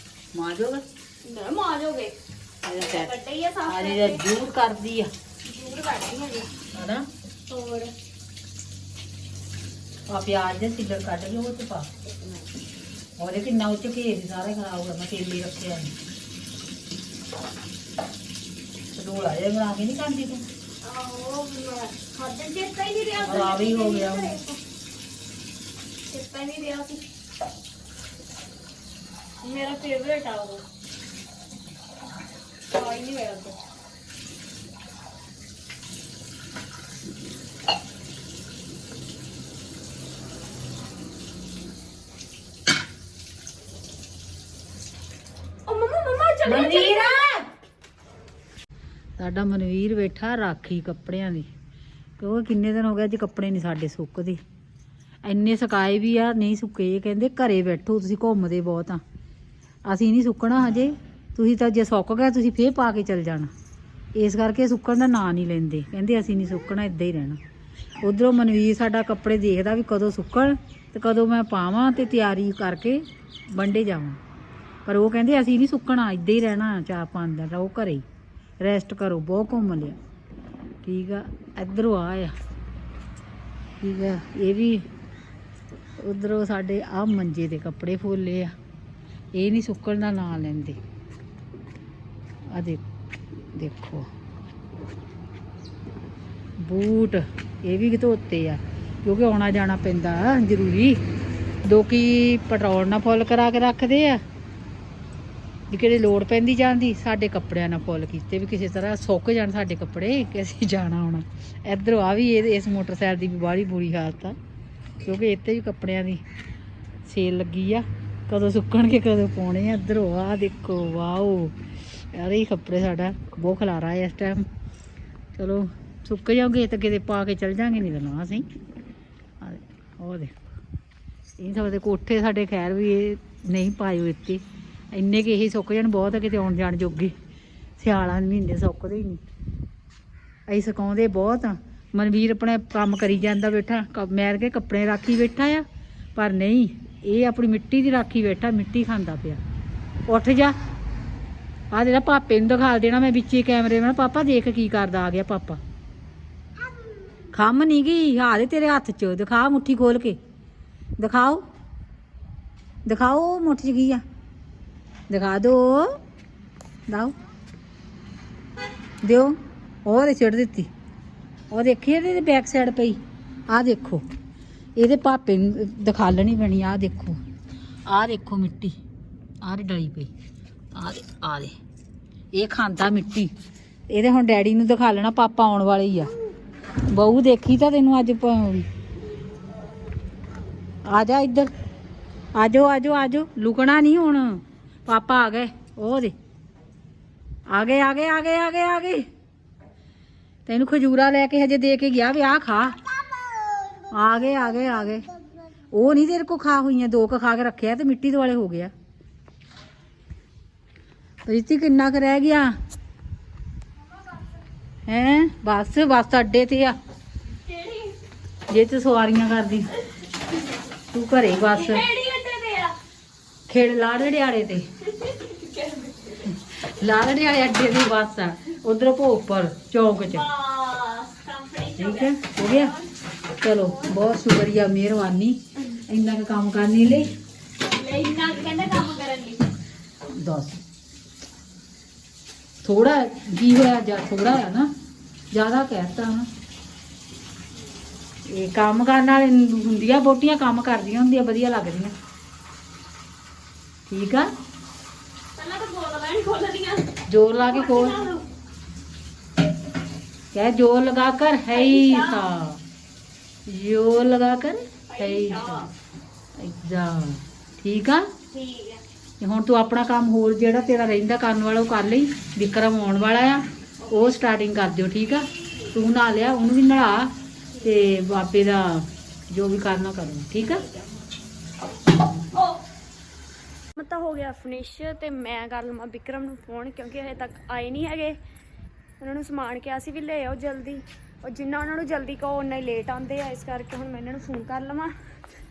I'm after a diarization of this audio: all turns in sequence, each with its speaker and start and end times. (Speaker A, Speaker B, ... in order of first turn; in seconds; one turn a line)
Speaker A: 0.3-0.8
Speaker B: 1.2-2.1
Speaker A: 2.6-3.1
Speaker B: 2.8-4.3
Speaker A: 3.7-5.1
Speaker B: 5.4-6.5
Speaker A: 6.7-7.1
Speaker B: 7.5-7.9
Speaker A: 10.1-11.9
Speaker B: 12.1-12.5
Speaker A: 13.2-15.9
Speaker A: 18.9-20.5
Speaker B: 20.8-24.6
Speaker A: 23.2-24.4
Speaker B: 26.1-27.0
Speaker B: 29.4-30.6
Speaker B: 32.7-33.6
Speaker B: 45.7-47.2
Speaker A: 46.5-47.4
Speaker A: 49.2-51.5
Speaker A: 52.2-54.4
Speaker A: 55.2-59.0
Speaker A: 59.9-63.5
Speaker A: 64.2-67.4
Speaker A: 68.0-74.2
Speaker A: 74.9-78.0
Speaker A: 78.6-80.0
Speaker A: 80.8-82.3
Speaker A: 83.8-84.9
Speaker A: 86.0-88.5
Speaker A: 89.3-90.8
Speaker A: 92.5-92.8
Speaker A: 93.5-94.1
Speaker A: 96.6-101.0
Speaker A: 101.7-104.2
Speaker A: 105.7-114.4
Speaker A: 115.0-116.2
Speaker A: 117.1-124.5
Speaker A: 125.4-128.5
Speaker A: 129.4-130.3
Speaker A: 131.4-137.2
Speaker A: 137.8-139.2
Speaker A: 140.5-149.4
Speaker A: 150.1-150.6
Speaker A: 151.7-155.6
Speaker A: 157.3-160.2
Speaker A: 161.0-161.5
Speaker A: 162.8-164.0
Speaker A: 165.1-166.0
Speaker A: 166.9-167.2
Speaker A: 169.0-170.7
Speaker A: 171.5-174.1
Speaker A: 174.8-177.2
Speaker A: 177.9-178.8
Speaker A: 179.4-180.1
Speaker A: 180.8-181.6
Speaker A: 182.3-183.3
Speaker A: 183.9-186.1
Speaker A: 186.9-188.7
Speaker A: 190.9-191.5
Speaker A: 192.3-196.1
Speaker A: 197.5-199.1
Speaker A: 200.5-202.8
Speaker A: 203.9-205.1
Speaker A: 205.7-208.7
Speaker A: 211.2-212.6
Speaker A: 214.9-216.8
Speaker B: 217.3-218.0
Speaker A: 218.5-219.7
Speaker A: 220.9-221.8
Speaker B: 221.6-222.8
Speaker A: 223.5-224.7
Speaker B: 224.8-226.3
Speaker A: 226.3-230.3
Speaker B: 230.1-232.9
Speaker A: 231.8-232.7
Speaker A: 233.4-237.1
Speaker B: 233.5-234.0
Speaker B: 237.7-239.5
Speaker A: 240.1-240.6
Speaker A: 242.6-244.7
Speaker A: 245.3-246.3
Speaker A: 248.3-251.9
Speaker A: 253.9-254.3
Speaker B: 255.4-256.9
Speaker A: 257.1-258.0
Speaker B: 257.5-258.3
Speaker A: 260.3-262.6
Speaker B: 261.5-262.3
Speaker A: 263.5-265.7
Speaker B: 264.8-265.7
Speaker A: 266.4-268.1
Speaker B: 268.3-268.8
Speaker A: 269.2-280.6
Speaker B: 273.8-274.2
Speaker B: 277.5-277.8
Speaker B: 280.4-281.0
Speaker B: 282.3-282.6
Speaker B: 283.8-288.2
Speaker B: 289.0-294.9